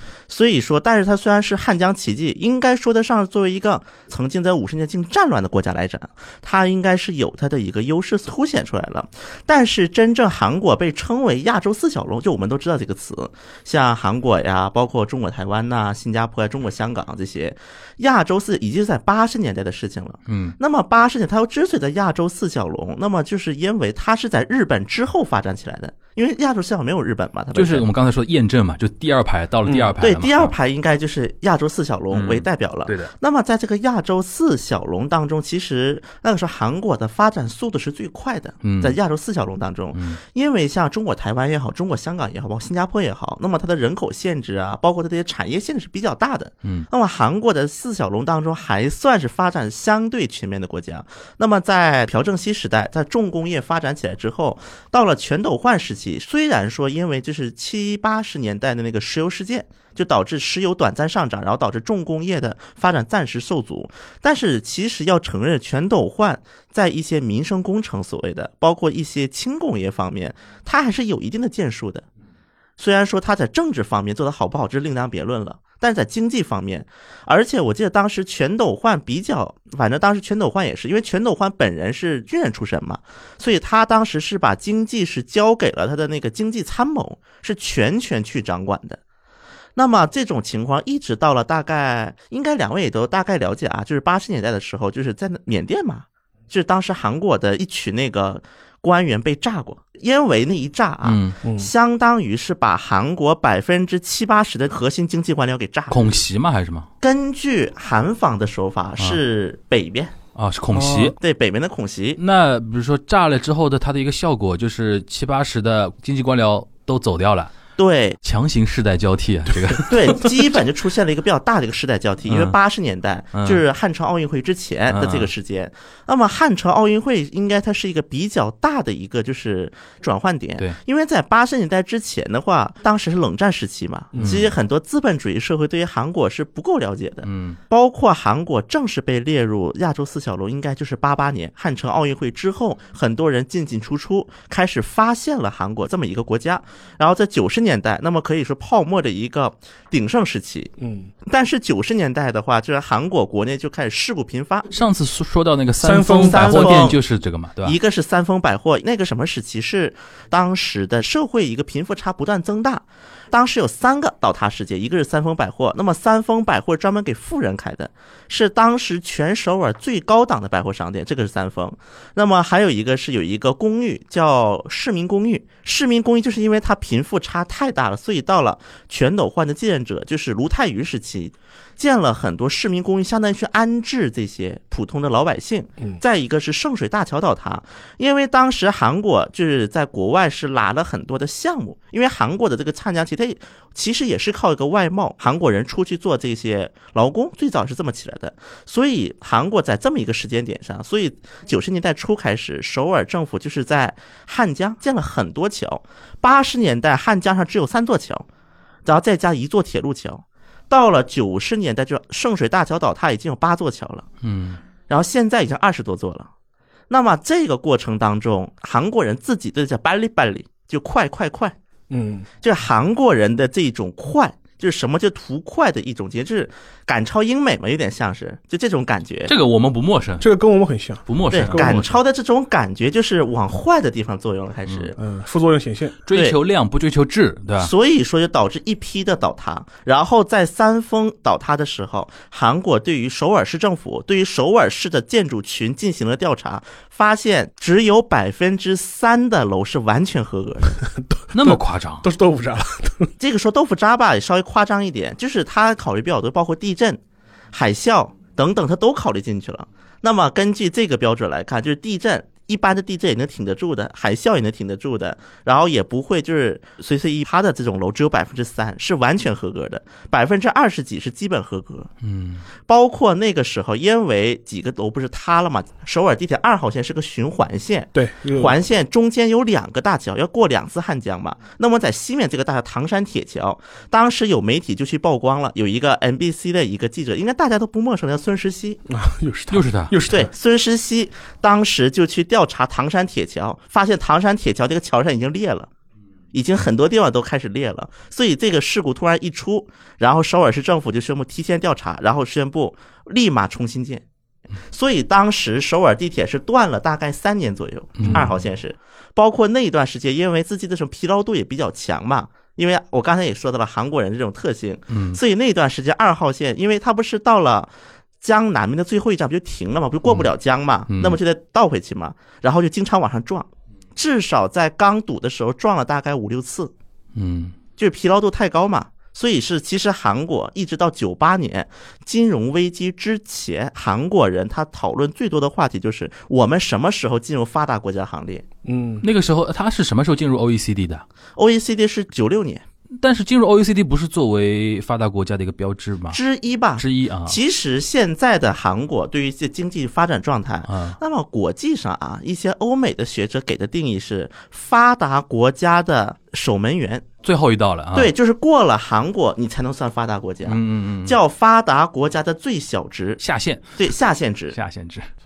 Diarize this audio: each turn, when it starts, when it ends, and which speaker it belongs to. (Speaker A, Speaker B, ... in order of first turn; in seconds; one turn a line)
Speaker A: 0.3-27.9
Speaker B: 20.3-20.6
Speaker B: 27.6-30.6
Speaker C: 29.6-29.9
Speaker A: 30.0-72.1
Speaker B: 32.1-33.1
Speaker B: 38.6-39.0
Speaker B: 39.9-40.2
Speaker A: 72.8-89.0
Speaker A: 89.8-106.2
Speaker B: 101.0-101.4
Speaker C: 101.4-101.7
Speaker B: 105.9-106.9
Speaker A: 107.0-110.2
Speaker B: 110.3-111.2
Speaker C: 110.7-111.2
Speaker A: 111.2-112.2
Speaker B: 112.2-117.5
Speaker A: 117.8-118.2
Speaker B: 118.2-120.6
Speaker C: 119.5-119.8
Speaker A: 119.9-150.7
Speaker B: 122.3-122.5
Speaker B: 123.3-123.6
Speaker B: 124.9-125.3
Speaker C: 134.1-134.4
Speaker B: 134.2-134.5
Speaker B: 137.2-137.6
Speaker C: 150.8-151.1
Speaker A: 151.3-154.7
Speaker B: 154.7-157.8
Speaker C: 155.8-156.9
Speaker A: 156.2-157.0
Speaker A: 157.6-208.2
Speaker A: 208.9-214.1
Speaker B: 214.2-214.6
Speaker A: 214.9-216.3
Speaker A: 216.9-221.6
Speaker C: 221.9-222.3
Speaker A: 222.4-229.3
Speaker B: 229.3-230.3
Speaker C: 230.2-231.8
Speaker B: 231.1-232.0
Speaker A: 231.3-235.0
Speaker C: 235.0-236.0
Speaker B: 236.1-237.7
Speaker A: 237.6-250.8
Speaker C: 250.8-253.1
Speaker B: 251.3-252.1
Speaker A: 253.2-257.0
Speaker A: 257.5-271.9
Speaker B: 272.0-272.4
Speaker A: 272.6-288.8
Speaker C: 277.9-278.6
Speaker C: 288.9-290.3
Speaker B: 289.5-289.9
Speaker A: 290.1-295.7
Speaker A: 296.3-304.0
Speaker A: 304.7-326.7
Speaker B: 308.0-308.3
Speaker C: 308.0-308.3
Speaker B: 314.9-315.2
Speaker B: 320.9-321.2
Speaker B: 327.1-327.5
Speaker A: 327.8-338.4
Speaker C: 338.6-339.1
Speaker B: 339.0-341.0
Speaker A: 341.4-342.6
Speaker B: 343.0-346.2
Speaker A: 346.1-357.1
Speaker B: 346.8-347.4
Speaker B: 350.7-351.0
Speaker B: 357.2-358.1
Speaker A: 357.9-363.2
Speaker B: 360.4-361.2
Speaker B: 363.2-363.9
Speaker A: 363.8-364.6
Speaker B: 364.5-365.1